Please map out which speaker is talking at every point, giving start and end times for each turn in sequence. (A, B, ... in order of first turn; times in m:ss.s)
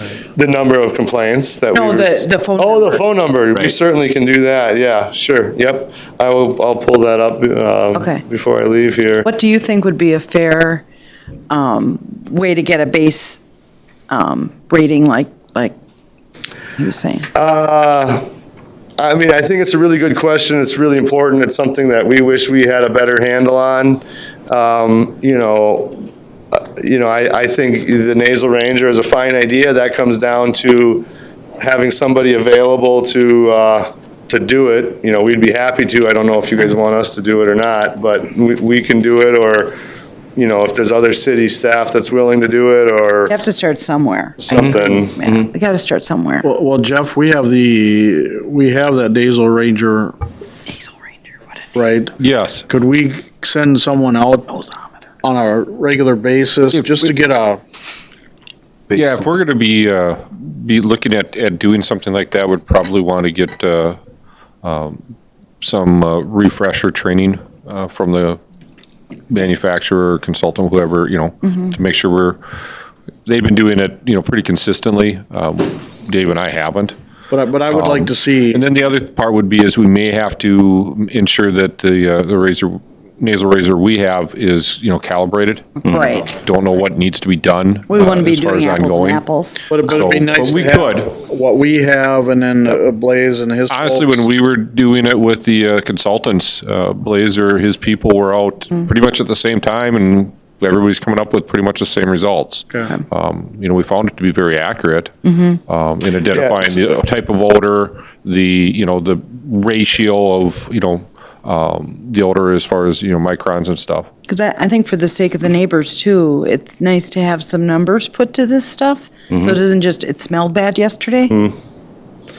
0:00.4-0:09.3 A
0:01.7-0:03.0 B
0:07.9-0:08.2 B
0:09.2-0:10.8 B
0:11.5-0:13.4 B
0:14.1-0:15.8 B
0:16.8-0:17.3 B
0:17.3-0:18.3 A
0:19.0-0:31.1 A
0:31.6-0:39.8 A
0:40.4-0:43.3 A
0:43.3-0:46.4 B
0:44.4-0:45.2 A
0:46.4-0:50.2 C
0:51.7-0:52.2 C
0:52.2-0:52.7 D
0:52.7-0:54.7 C
0:55.2-0:57.6 C
0:58.9-1:04.0 D
1:04.6-1:05.0 D
1:05.6-1:08.4 D
1:09.3-1:12.4 D
1:13.2-1:17.0 D
1:17.3-1:18.6 C
1:17.7-1:25.8 D
1:25.9-1:26.3 B
1:26.3-1:29.2 D
1:27.9-1:29.7 B
1:29.7-1:34.2 C
1:29.8-1:31.1 D
1:33.7-1:54.1 D
1:46.3-1:46.8 A
1:54.3-2:01.3 B
2:01.3-2:01.5 A